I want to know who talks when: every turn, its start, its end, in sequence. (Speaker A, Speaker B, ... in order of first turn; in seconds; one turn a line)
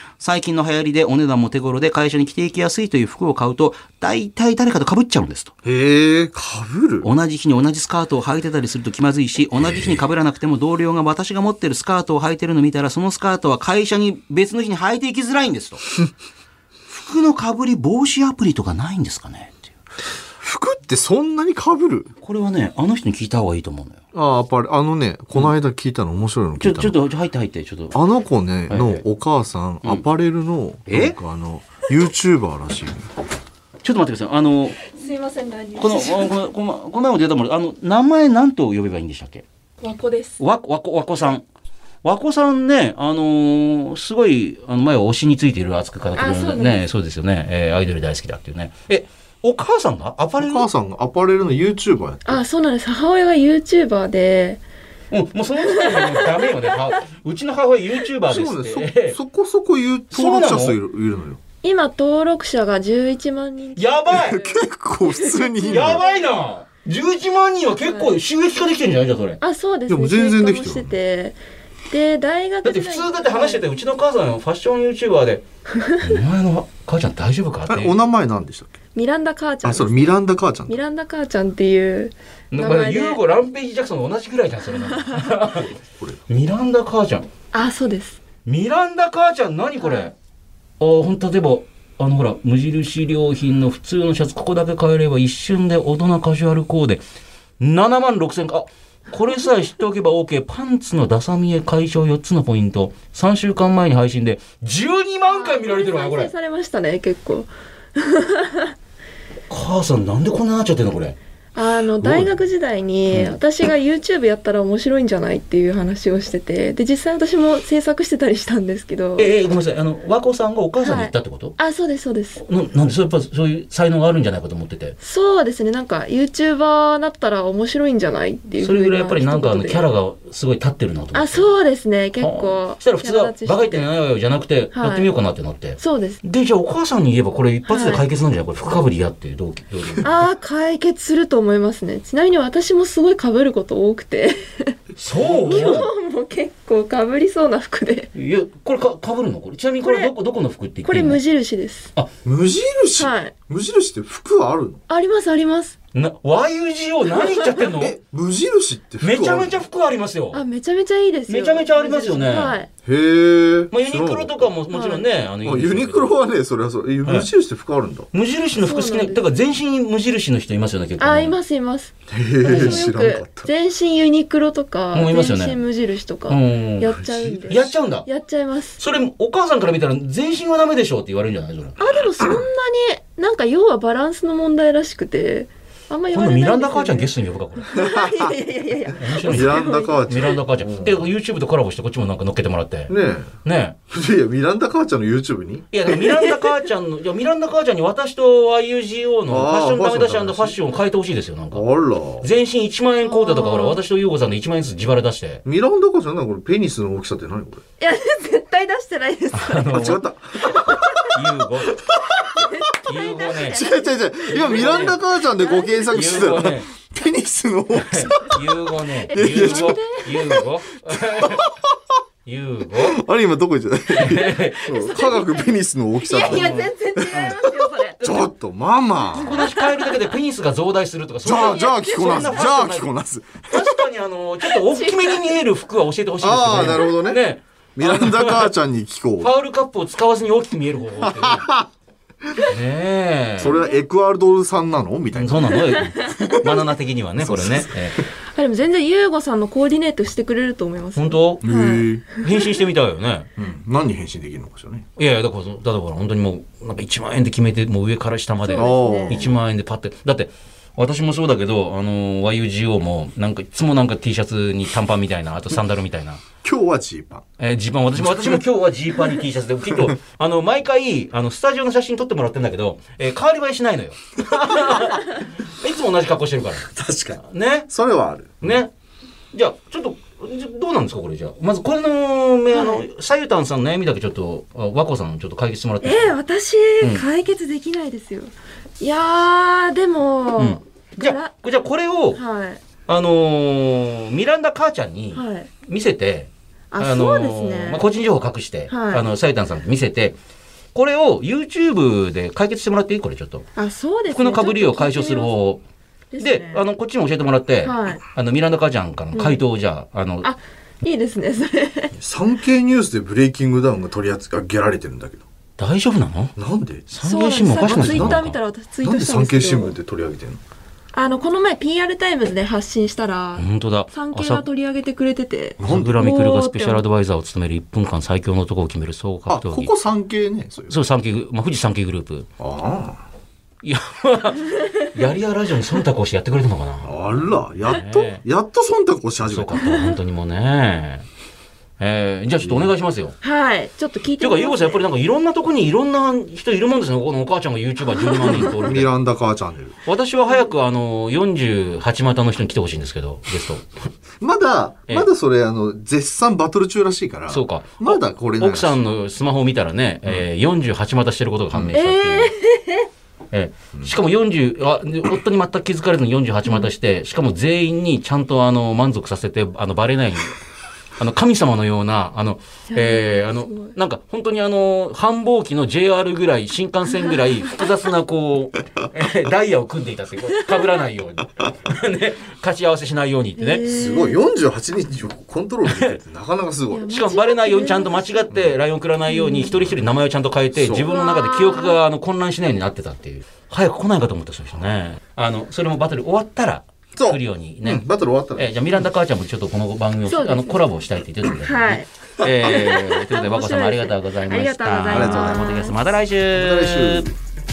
Speaker A: 0.2-5.5
Speaker B: 5.6-7.1
Speaker A: 7.0-15.8
Speaker B: 9.7-10.0
Speaker A: 16.9-19.7
Speaker B: 20.4-22.1
Speaker A: 22.2-24.0
Speaker B: 24.1-27.0
Speaker A: 26.6-28.0
Speaker B: 27.9-33.1
Speaker A: 28.7-29.0
Speaker A: 30.9-31.2
Speaker A: 33.8-34.8
Speaker C: 34.9-36.3
Speaker A: 35.8-39.5
Speaker C: 39.8-40.4
Speaker A: 40.4-41.5
Speaker A: 42.0-50.7
Speaker C: 46.2-46.9
Speaker B: 50.4-52.4
Speaker C: 52.3-54.6
Speaker A: 55.1-59.2
Speaker C: 55.7-56.5
Speaker B: 58.3-61.4
Speaker A: 60.1-60.8
Speaker C: 61.6-66.2
Speaker A: 63.8-64.4
Speaker B: 64.1-66.0
Speaker A: 65.7-69.4
Speaker C: 67.9-68.1
Speaker C: 69.4-71.4
Speaker B: 69.9-70.9
Speaker C: 71.9-73.6
Speaker A: 72.6-75.4
Speaker C: 75.8-76.2
Speaker A: 76.0-78.0
Speaker B: 77.7-78.7
Speaker C: 79.0-83.2
Speaker B: 79.6-80.8
Speaker A: 82.5-85.8
Speaker C: 84.9-85.1
Speaker A: 86.3-87.3
Speaker C: 87.5-88.2
Speaker A: 88.5-90.2
Speaker C: 89.8-90.1
Speaker A: 90.8-97.0
Speaker A: 97.6-106.3
Speaker C: 105.3-108.8
Speaker A: 109.5-111.2
Speaker C: 111.5-119.3
Speaker B: 112.0-112.3
Speaker A: 119.2-121.6
Speaker C: 120.8-122.4
Speaker A: 122.4-125.0
Speaker C: 125.0-129.9
Speaker A: 128.6-131.5
Speaker C: 131.1-133.9
Speaker A: 132.2-140.1
Speaker C: 134.8-135.1
Speaker C: 135.8-136.2
Speaker C: 137.7-138.0
Speaker C: 140.0-144.8
Speaker A: 145.0-145.9
Speaker B: 145.2-145.8
Speaker C: 145.4-148.1
Speaker A: 148.2-151.2
Speaker C: 149.8-150.1
Speaker C: 150.9-151.9
Speaker B: 152.2-154.8
Speaker C: 153.0-153.3
Speaker C: 154.9-155.8
Speaker A: 155.9-158.0
Speaker B: 157.7-159.6
Speaker A: 159.0-160.4
Speaker C: 160.3-162.7
Speaker A: 161.3-162.6
Speaker B: 162.8-164.5
Speaker A: 163.7-166.2
Speaker C: 164.7-165.1
Speaker B: 165.4-168.1
Speaker A: 168.1-171.4
Speaker C: 168.6-169.3
Speaker C: 171.0-178.8
Speaker B: 172.1-173.5
Speaker A: 172.5-172.8
Speaker A: 174.9-175.6
Speaker A: 176.3-176.9
Speaker B: 176.9-177.7
Speaker A: 177.5-178.1
Speaker A: 178.8-181.8
Speaker C: 181.8-190.3
Speaker A: 186.1-187.7
Speaker B: 187.7-188.4
Speaker A: 189.0-192.9
Speaker B: 189.2-191.1
Speaker B: 192.9-193.3
Speaker A: 193.4-193.8
Speaker B: 193.9-195.7
Speaker A: 195.7-201.7
Speaker C: 196.0-196.6
Speaker B: 199.3-200.6
Speaker B: 201.5-202.3
Speaker A: 202.2-205.4
Speaker C: 203.1-203.8
Speaker B: 205.4-207.6
Speaker C: 207.8-211.0
Speaker A: 209.3-210.1
Speaker B: 209.7-211.2
Speaker A: 211.1-211.8
Speaker B: 211.8-212.6
Speaker C: 212.4-216.4
Speaker A: 212.8-213.6
Speaker B: 213.4-218.6
Speaker A: 214.3-215.0
Speaker A: 215.9-216.7
Speaker A: 217.8-221.5
Speaker B: 219.1-222.0
Speaker C: 219.1-220.1
Speaker A: 222.2-223.0
Speaker B: 222.8-229.4
Speaker A: 223.9-224.9
Speaker C: 224.7-228.0
Speaker A: 226.2-227.4
Speaker A: 228.0-228.3
Speaker A: 229.1-232.9
Speaker C: 229.1-230.2
Speaker B: 231.2-233.8
Speaker C: 231.3-232.4
Speaker A: 233.5-238.5
Speaker C: 234.5-235.3
Speaker B: 236.2-237.2
Speaker B: 237.8-239.3
Speaker A: 239.2-241.5
Speaker B: 241.0-241.7
Speaker A: 242.5-243.7
Speaker B: 243.4-246.7
Speaker A: 245.2-248.0
Speaker B: 247.2-248.0
Speaker C: 248.3-252.5
Speaker A: 251.0-251.5
Speaker B: 251.4-252.0
Speaker A: 252.1-253.3
Speaker B: 253.4-254.9
Speaker A: 255.0-266.2
Speaker C: 258.4-259.2
Speaker B: 258.6-259.4
Speaker B: 266.4-267.2
Speaker A: 267.4-277.7
Speaker B: 267.9-268.4
Speaker B: 274.4-275.0
Speaker B: 276.7-278.6
Speaker A: 278.4-278.7
Speaker A: 279.3-286.2
Speaker C: 282.5-282.8
Speaker C: 285.8-291.3
Speaker A: 286.8-287.1
Speaker A: 290.4-292.2
Speaker C: 292.1-292.6
Speaker A: 292.9-300.2
Speaker C: 295.1-295.5
Speaker C: 296.7-297.9
Speaker C: 298.7-299.1
Speaker A: 300.7-303.5
Speaker C: 303.6-305.4
Speaker A: 304.1-305.6
Speaker C: 306.1-306.6
Speaker A: 306.2-310.3
Speaker C: 307.6-308.0
Speaker C: 309.1-309.4
Speaker C: 310.2-311.9
Speaker B: 312.0-315.2
Speaker A: 315.6-316.3
Speaker B: 316.4-316.9
Speaker A: 316.9-318.4
Speaker C: 317.0-319.8
Speaker B: 317.7-318.2
Speaker B: 318.8-320.4
Speaker C: 320.9-326.8
Speaker A: 323.4-324.5
Speaker B: 325.6-326.0
Speaker A: 325.6-329.7
Speaker B: 329.3-330.7
Speaker A: 330.7-332.3
Speaker B: 332.4-333.0
Speaker A: 333.6-337.0
Speaker B: 336.8-339.9
Speaker A: 337.6-338.2
Speaker A: 339.2-341.1
Speaker C: 339.6-339.9
Speaker A: 341.8-343.2
Speaker B: 342.4-342.7
Speaker C: 343.2-344.8
Speaker A: 344.2-348.9
Speaker C: 348.0-348.6
Speaker B: 348.2-349.8
Speaker A: 349.9-353.7
Speaker B: 354.2-358.8
Speaker A: 357.3-362.3
Speaker C: 361.7-362.9
Speaker A: 363.3-370.3
Speaker C: 366.5-366.7
Speaker A: 371.0-383.7
Speaker C: 372.7-373.8
Speaker C: 376.9-377.2
Speaker C: 383.4-384.2
Speaker B: 383.7-386.9
Speaker A: 385.7-386.0
Speaker C: 386.7-388.3
Speaker A: 386.9-397.9
Speaker B: 388.3-388.6
Speaker C: 389.1-389.5
Speaker B: 390.6-390.9
Speaker C: 390.8-391.8
Speaker B: 397.0-398.9
Speaker A: 398.4-407.1
Speaker C: 400.1-400.7
Speaker C: 401.3-405.8
Speaker B: 404.9-405.6
Speaker B: 406.3-407.1